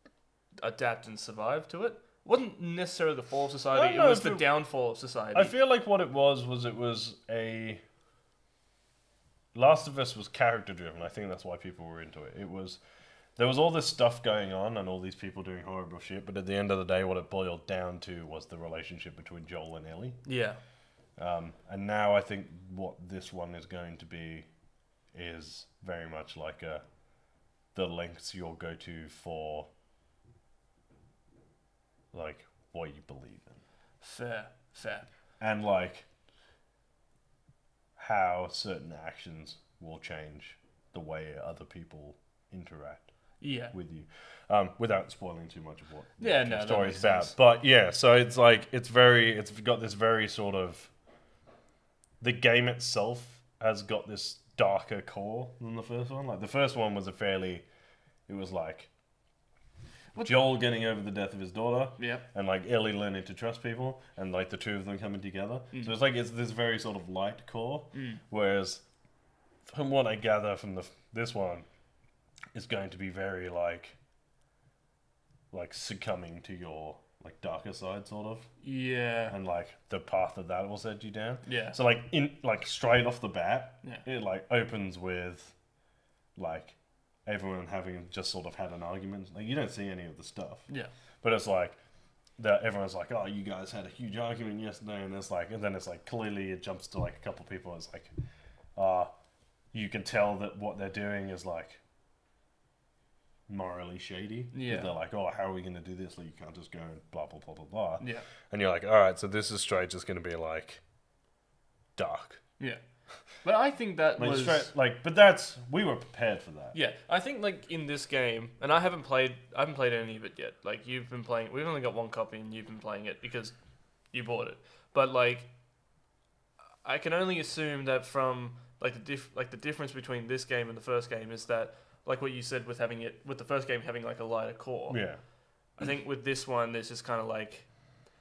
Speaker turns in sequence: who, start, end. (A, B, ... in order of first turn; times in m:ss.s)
0:00.6-0:05.5 A
0:03.7-0:04.5 B
0:05.3-0:07.8 B
0:09.5-0:12.8 B
0:13.4-0:20.2 B
0:20.2-0:20.6 A
0:21.2-0:24.4 B
0:25.1-0:26.8 B
0:27.7-0:29.7 B
0:32.1-0:33.6 B
0:34.0-0:35.1 A
0:35.4-0:36.0 B
0:38.0-0:43.1 B
0:43.4-0:43.7 A
0:43.7-0:50.9 B
0:46.2-0:47.3 A
0:52.2-0:57.6 B
0:58.3-0:58.9 B
1:00.2-1:08.8 B
1:02.0-1:02.2 A
1:07.9-1:08.2 A
1:09.7-1:11.6 B
1:12.5-1:14.0 B
1:15.5-1:18.5 B
1:18.6-1:19.3 A
1:19.3-1:25.5 B
1:21.4-1:21.8 A
1:26.4-1:30.6 B
1:31.2-1:31.8 B
1:32.4-1:38.1 B
1:38.8-1:39.1 B
1:39.7-1:41.8 B
1:43.5-1:50.8 B
1:44.5-1:44.9 A
1:48.0-1:48.2 A
1:52.0-1:52.4 B
1:53.4-1:54.7 A
1:54.2-1:56.8 B
1:56.7-2:03.5 A
2:04.1-2:05.5 A
2:06.8-2:15.0 A
2:14.9-2:15.2 B
2:15.8-2:17.7 A